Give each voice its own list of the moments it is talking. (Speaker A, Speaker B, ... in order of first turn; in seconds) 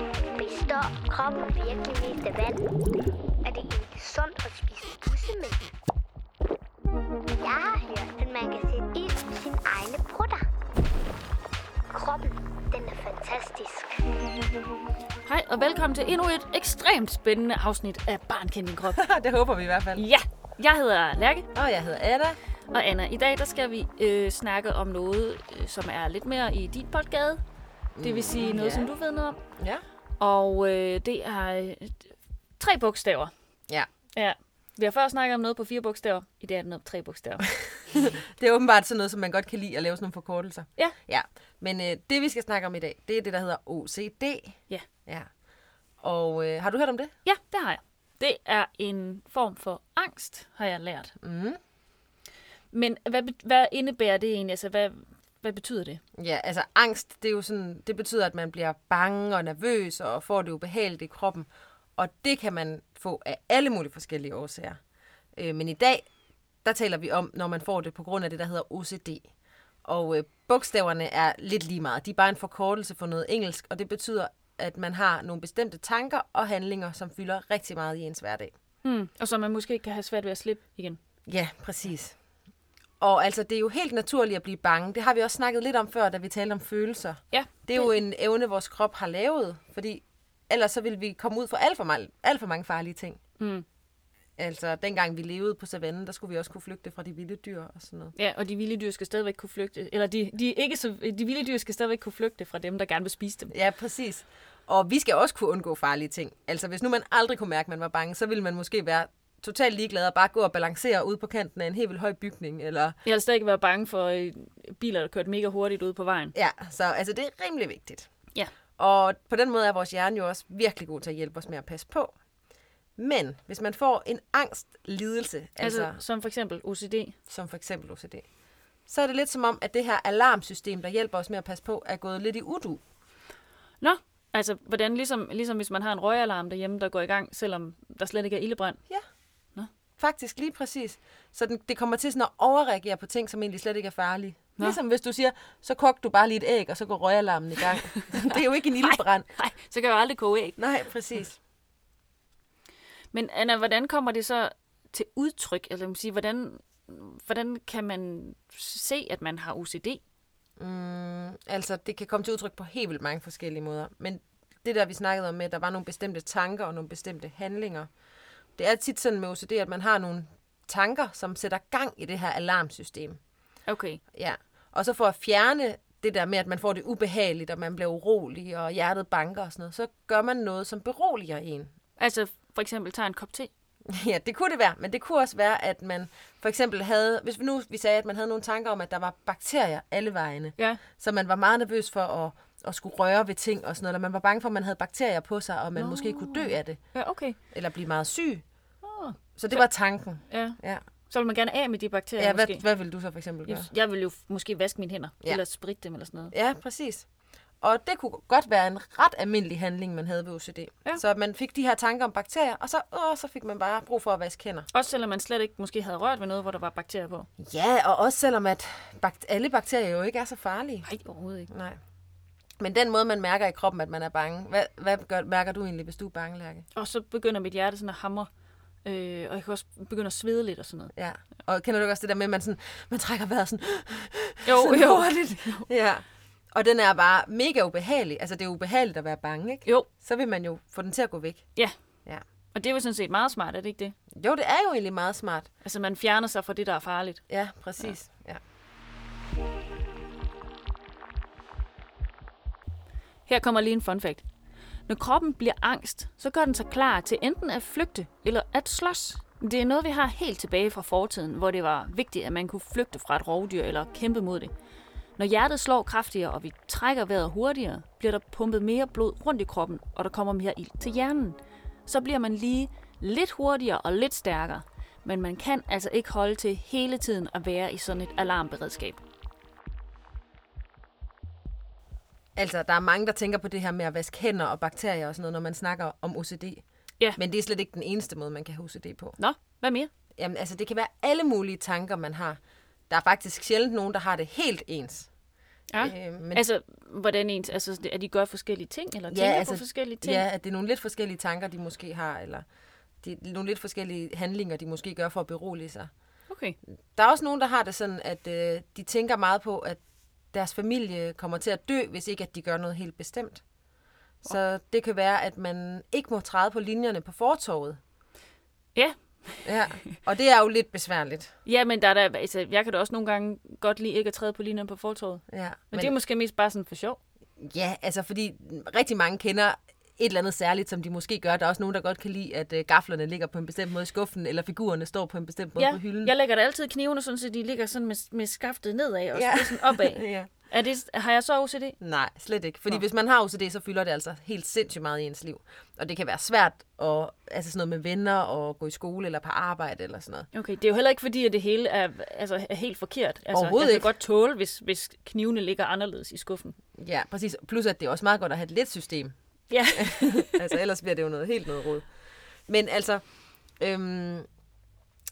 Speaker A: 0.3-2.6, 3.4-5.6, 7.4-10.4, 11.9-14.0
Speaker B: 15.2-19.0, 19.9-21.5, 22.7-27.4, 28.0-29.4, 30.2-33.3, 34.1-37.5, 47.2-51.1, 52.7-56.0, 78.8-81.0, 87.3-88.0, 93.4-93.7, 98.2-103.5, 113.0-116.3, 125.6-127.2, 133.8-138.8, 148.1-150.6, 153.1-160.0, 173.7-174.0, 182.0-183.5, 190.6-190.8, 195.8-197.4, 198.8-199.7, 200.3-200.6, 201.1-202.6, 203.5-206.3, 214.7-217.3, 220.8-221.5, 226.8-228.3, 228.8-230.9, 234.4-235.7, 242.5-243.9, 245.6-247.2, 253.3-254.2, 254.9-264.5, 265.2-279.0, 289.2-289.9, 295.7-300.2, 306.3-306.6, 318.8-319.9, 321.4-327.0, 335.6-341.8, 350.3-356.6, 359.5-360.5
Speaker C: 18.9-20.1, 21.5-22.4, 27.9-28.9, 29.6-29.8, 37.9-45.3, 46.0-47.1, 51.2-51.6, 56.1-64.8, 65.4-66.1, 66.6-69.3, 69.8-78.5, 81.3-82.2, 83.0-93.2, 94.4-98.1, 103.5-113.0, 116.3-118.1, 118.8-122.2, 123.0-126.0, 127.3-128.2, 128.9-132.8, 140.0-149.3, 150.6-151.4, 160.6-167.9, 168.6-173.2, 174.1-181.7, 183.9-196.8, 197.5-198.4, 199.4-200.8, 202.2-203.7, 206.3-207.1, 207.6-214.7, 217.4-220.9, 221.5-221.8, 222.6-226.7, 231.0-241.5, 244.2-245.5, 247.3-248.4, 282.4-286.6, 287.2-289.2, 290.2-292.4, 292.9-295.1, 295.8-296.5, 299.1-302.4, 303.0-305.9, 306.9-309.8, 310.3-313.4, 314.2-317.8, 319.4-321.3, 325.3-326.0, 327.4-336.1, 339.1-340.3, 341.8-350.3, 353.3-353.9, 356.8-359.1, 359.7-361.9, 362.5-363.0, 363.6-364.3